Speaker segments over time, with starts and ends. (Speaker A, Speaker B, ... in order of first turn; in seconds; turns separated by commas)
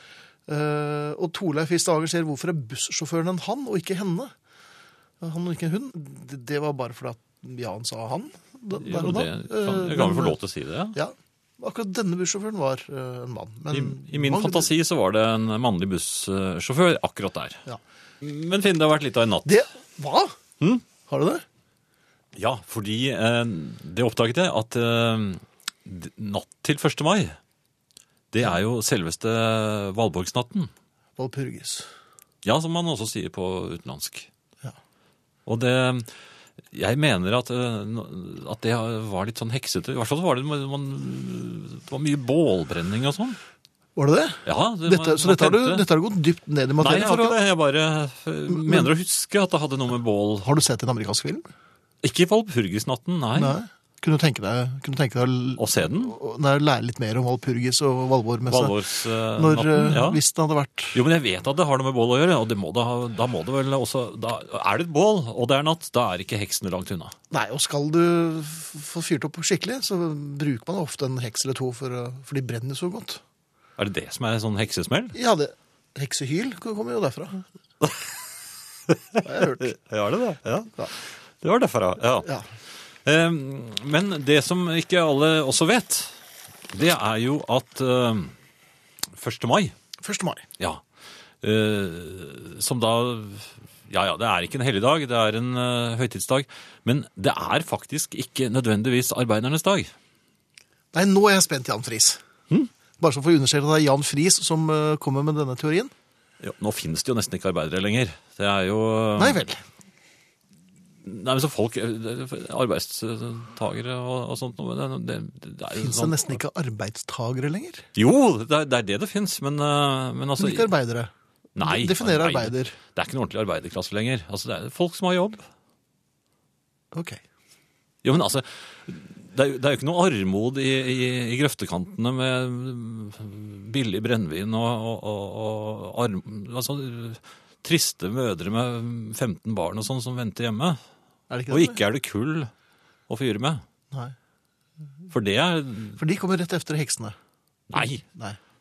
Speaker A: 0.5-4.3, Speaker A: 5.2-10.4, Speaker B: 8.8-11.0, Speaker A: 10.9-14.7, Speaker B: 13.7-17.6, Speaker B: 18.2-19.6, Speaker A: 19.4-20.4, Speaker A: 21.1-21.4, Speaker B: 22.4-27.4, Speaker B: 28.3-30.7, Speaker A: 31.2-31.9, Speaker B: 32.4-34.3, Speaker B: 35.5-36.1, Speaker B: 36.7-43.4, Speaker A: 44.0-47.4, Speaker B: 44.5-45.9, Speaker B: 46.8-50.5, Speaker A: 48.5-48.9, Speaker A: 50.4-51.5, Speaker B: 52.0-53.6, Speaker A: 53.3-58.8, Speaker B: 55.6-56.1, Speaker B: 58.5-60.2, Speaker A: 59.3-61.0, Speaker B: 60.9-67.2, Speaker A: 67.3-73.2, Speaker B: 73.8-75.2, Speaker A: 75.1-77.5, Speaker B: 77.8-78.1, Speaker B: 78.9-82.3, Speaker A: 79.2-79.8, Speaker A: 82.2-82.5, Speaker B: 83.0-86.2, Speaker B: 86.7-88.3, Speaker B: 89.1-89.8, Speaker A: 90.0-90.5, Speaker B: 91.4-99.9, Speaker A: 100.9-102.2, Speaker A: 103.0-105.9, Speaker B: 106.4-109.4, Speaker A: 109.2-109.6, Speaker B: 111.0-116.4, Speaker A: 115.8-117.9, Speaker B: 118.0-120.7, Speaker A: 120.4-122.8, Speaker B: 121.6-125.4, Speaker A: 126.9-127.2, Speaker B: 128.0-140.8, Speaker A: 141.3-141.8, Speaker B: 141.5-142.5, Speaker B: 143.1-143.6, Speaker B: 145.1-146.0, Speaker A: 146.0-147.2, Speaker B: 147.7-148.0, Speaker A: 147.8-148.4